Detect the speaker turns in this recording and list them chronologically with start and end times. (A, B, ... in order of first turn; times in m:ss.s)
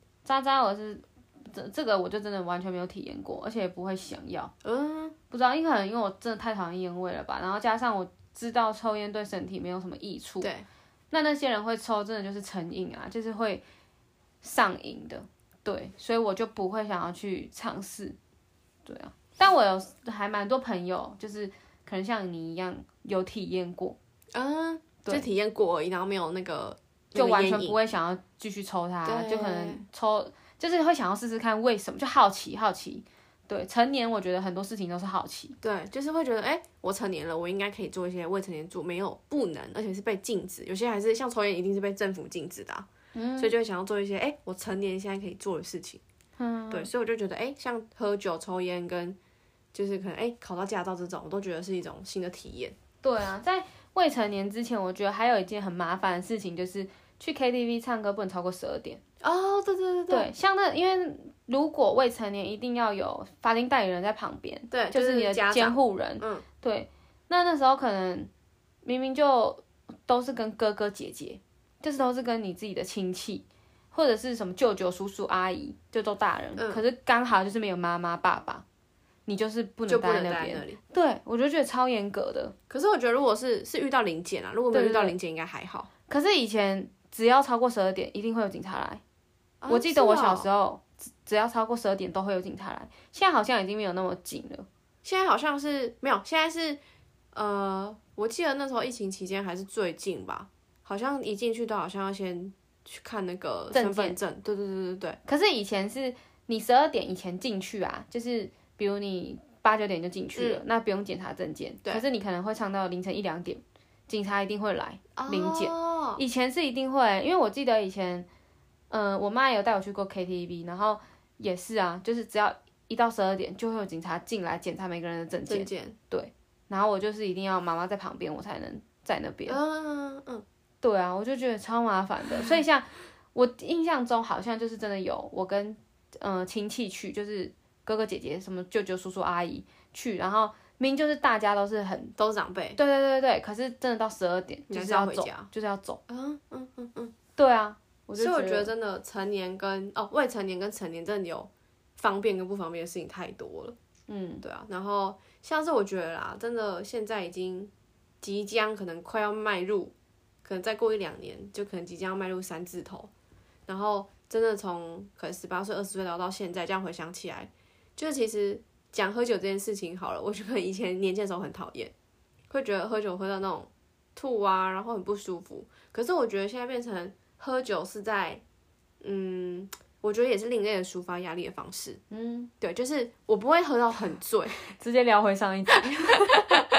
0:00.2-0:04.5 A
0:04.6-0:05.2 B
0:05.3-0:10.5 A
0:11.1-0:13.6 A
0:14.4-0:18.2 A
0:18.8-0:24.0 A
0:24.3-0:27.8 B
0:27.1-0:35.6 A
0:29.0-0:29.8 B
0:35.6-0:42.9 B
0:43.1-0:43.5 A
0:43.4-0:46.0 B
0:46.4-0:46.9 A
0:46.7-0:49.2 B
0:49.7-0:52.7 B
0:53.0-0:59.0 A
0:59.2-1:00.3 B
1:00.1-1:08.3 A
1:04.7-1:06.4 B
1:08.8-1:18.6 A
1:16.6-1:16.8 B
1:19.3-1:22.5 A
1:19.9-1:20.8 B
1:22.7-1:25.9 B
1:24.7-1:25.1 A
1:26.1-1:29.0 A
1:29.6-1:30.5 B
1:29.7-1:34.7 A
1:35.0-1:36.8 B
1:37.3-1:45.2 B
1:43.7-1:44.2 A
1:45.2-1:58.3 A
1:50.4-1:50.6 B
1:55.2-1:56.2 B
1:58.9-2:09.6 A
2:05.5-2:06.0 B
2:09.5-2:10.4 B
2:10.8-2:22.1 A
2:22.2-2:22.8 B
2:22.8-2:26.0 A
2:24.7-2:25.5 B
2:26.1-2:27.1 B
2:27.4-2:28.7 A
2:28.2-2:33.8 B
2:34.1-2:34.4 A
2:34.4-2:37.7 B
2:38.2-2:39.9 B
2:40.4-2:43.1 B
2:43.7-2:51.9 B
2:52.5-2:58.4 B
2:59.0-3:02.0 B
3:02.1-3:02.5 A
3:02.6-3:04.6 B
3:04.8-3:06.6 A